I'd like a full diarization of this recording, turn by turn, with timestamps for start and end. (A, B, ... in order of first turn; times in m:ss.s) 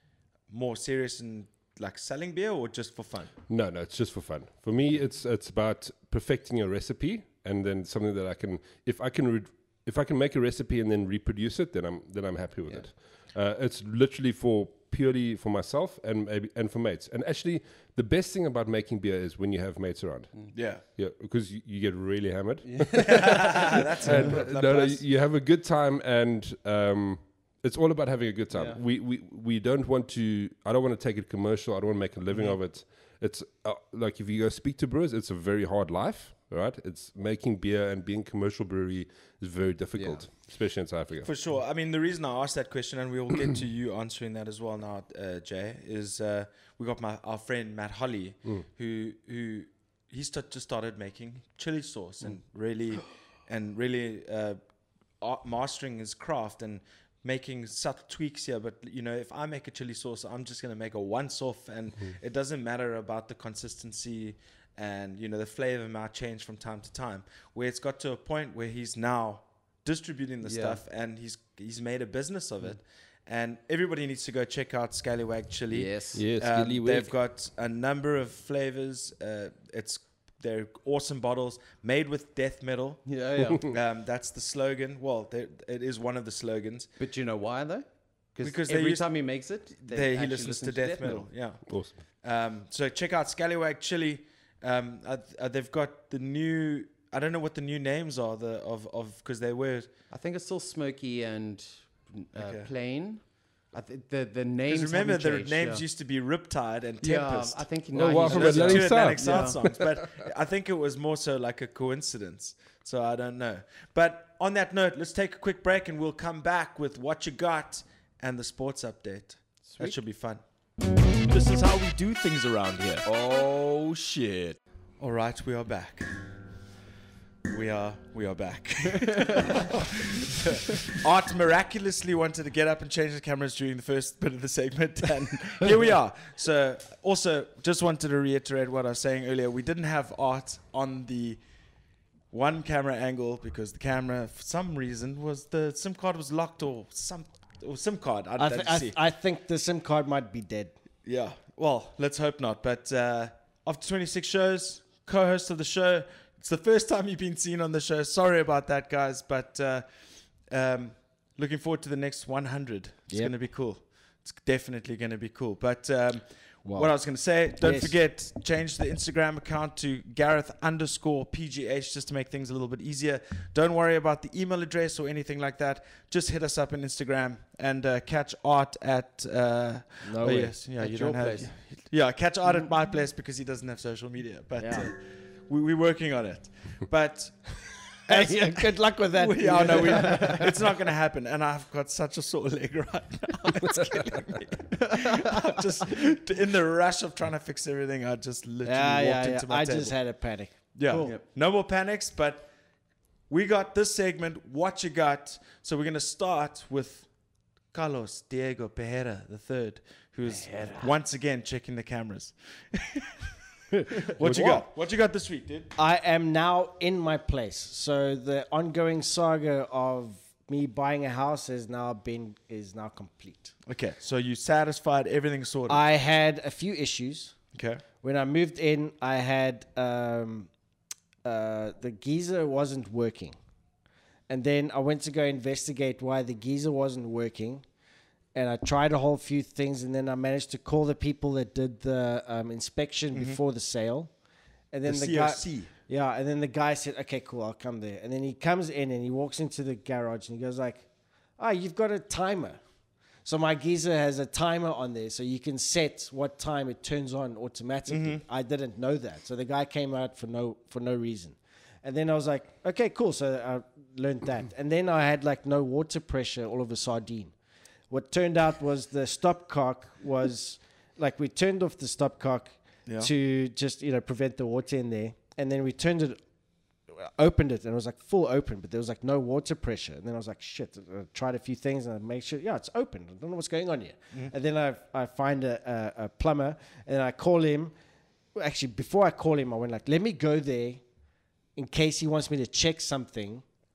0:00.5-0:03.3 A
0:03.5-0:20.3 B
0:20.5-0:20.8 A
0:20.9-0:41.3 B
0:22.6-0:23.8 C
0:23.0-0:25.0 A
0:28.5-0:28.8 C
0:40.0-0:40.3 C
0:41.2-0:54.6 A
0:55.2-1:26.9 A
1:10.4-1:10.8 C
1:15.7-1:16.2 C
1:16.1-1:17.1 B
1:23.0-1:23.7 C
1:27.0-1:31.3 C
1:28.4-1:29.1 A
1:29.8-1:31.7 A
1:31.7-1:31.9 B
1:32.2-1:39.9 A
1:40.1-1:45.8 C
1:42.3-1:42.7 A
1:44.7-2:00.4 A
1:47.0-1:49.6 C
1:47.9-1:49.8 B
1:59.6-2:00.0 C
2:01.2-2:06.1 A
2:07.4-2:21.4 A
2:22.3-2:29.0 A
2:28.4-2:30.7 D
2:31.0-2:39.8 A
2:40.4-3:20.0 A
2:47.6-2:47.9 D
3:00.0-3:00.6 D
3:00.8-3:01.5 C
3:04.6-3:04.9 D
3:08.1-3:10.5 D
3:18.6-3:21.1 D
3:20.7-3:22.5 A
3:23.3-3:27.1 A
3:27.7-3:33.2 A
3:30.2-3:30.9 C
3:33.9-3:35.7 A
3:34.2-3:34.6 B
3:35.8-3:43.5 D
3:43.6-3:45.8 A
3:45.7-3:47.4 D
3:47.5-3:47.8 A
3:48.0-3:50.5 D
3:51.2-3:53.4 D
3:54.3-3:57.6 D
3:58.3-4:04.1 D
4:03.1-4:03.4 A
4:04.7-4:10.8 D
4:04.8-4:05.7 A
4:11.4-4:12.6 D
4:13.2-4:27.3 D
4:17.9-4:18.2 A
4:27.9-4:36.2 D
4:32.8-4:33.1 A
4:37.0-4:47.7 D
4:48.3-4:50.8 D
4:51.6-4:53.4 D